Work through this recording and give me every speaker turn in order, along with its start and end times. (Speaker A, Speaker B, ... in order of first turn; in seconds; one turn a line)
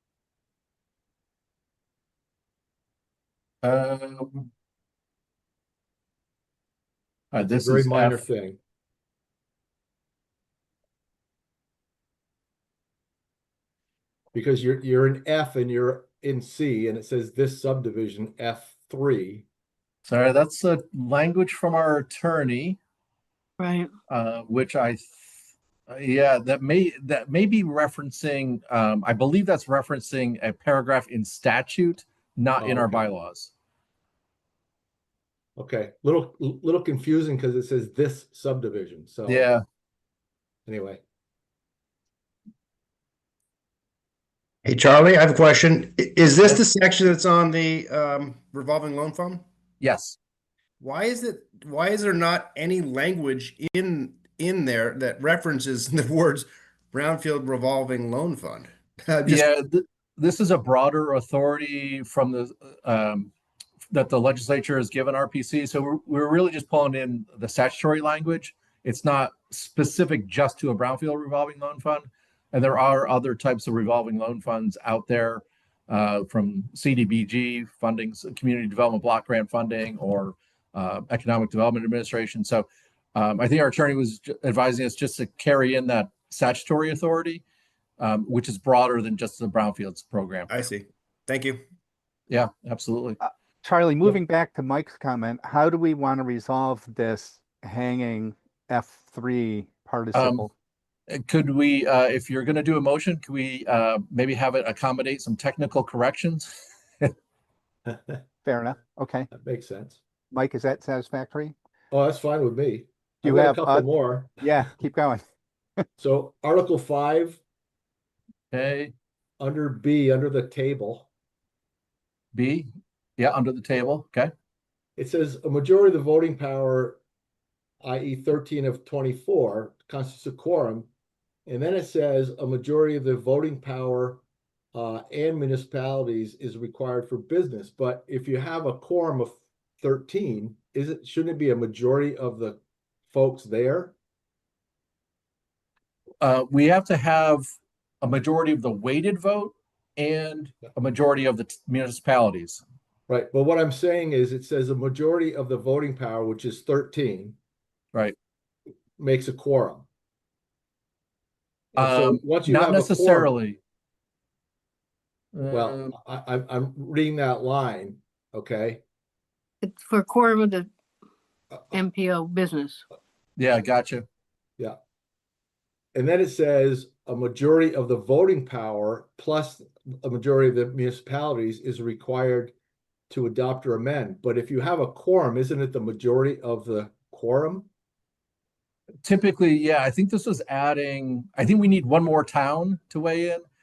Speaker A: 3.6-4.5
Speaker A: 7.3-8.2
Speaker B: 7.4-8.6
Speaker B: 14.3-19.4
Speaker A: 20.1-22.8
Speaker C: 23.6-23.9
Speaker A: 24.1-25.1
Speaker A: 25.9-33.5
Speaker B: 32.6-33.1
Speaker B: 35.6-39.5
Speaker A: 39.3-39.6
Speaker B: 40.7-41.0
Speaker D: 44.6-49.5
Speaker A: 49.8-50.2
Speaker D: 50.8-59.5
Speaker A: 59.2-63.3
Speaker A: 63.9-87.4
Speaker A: 88.0-90.5
Speaker D: 90.5-91.6
Speaker A: 92.3-93.2
Speaker E: 93.2-100.5
Speaker A: 100.1-100.4
Speaker A: 101.1-107.1
Speaker E: 108.4-109.3
Speaker B: 109.3-110.0
Speaker E: 110.3-111.5
Speaker B: 111.9-114.4
Speaker E: 113.2-115.2
Speaker B: 116.0-117.4
Speaker A: 118.5-118.9
Speaker B: 119.4-121.1
Speaker A: 122.3-122.7
Speaker A: 123.2-124.3
Speaker B: 125.0-127.0
Speaker B: 127.8-130.9
Speaker B: 131.5-134.2
Speaker B: 134.7-143.9
Speaker A: 146.2-147.5
Speaker A: 148.0-152.6
Speaker B: 153.1-157.4
Speaker B: 159.0-159.9
Speaker B: 161.7-163.3
Speaker A: 161.8-163.6
Speaker A: 165.3-165.9
Speaker B: 165.5-168.8
Speaker C: 169.6-170.7
Speaker C: 171.7-172.8
Speaker A: 173.4-174.1
Speaker B: 175.9-182.5
Speaker B: 183.1-187.7
Speaker A: 189.0-193.4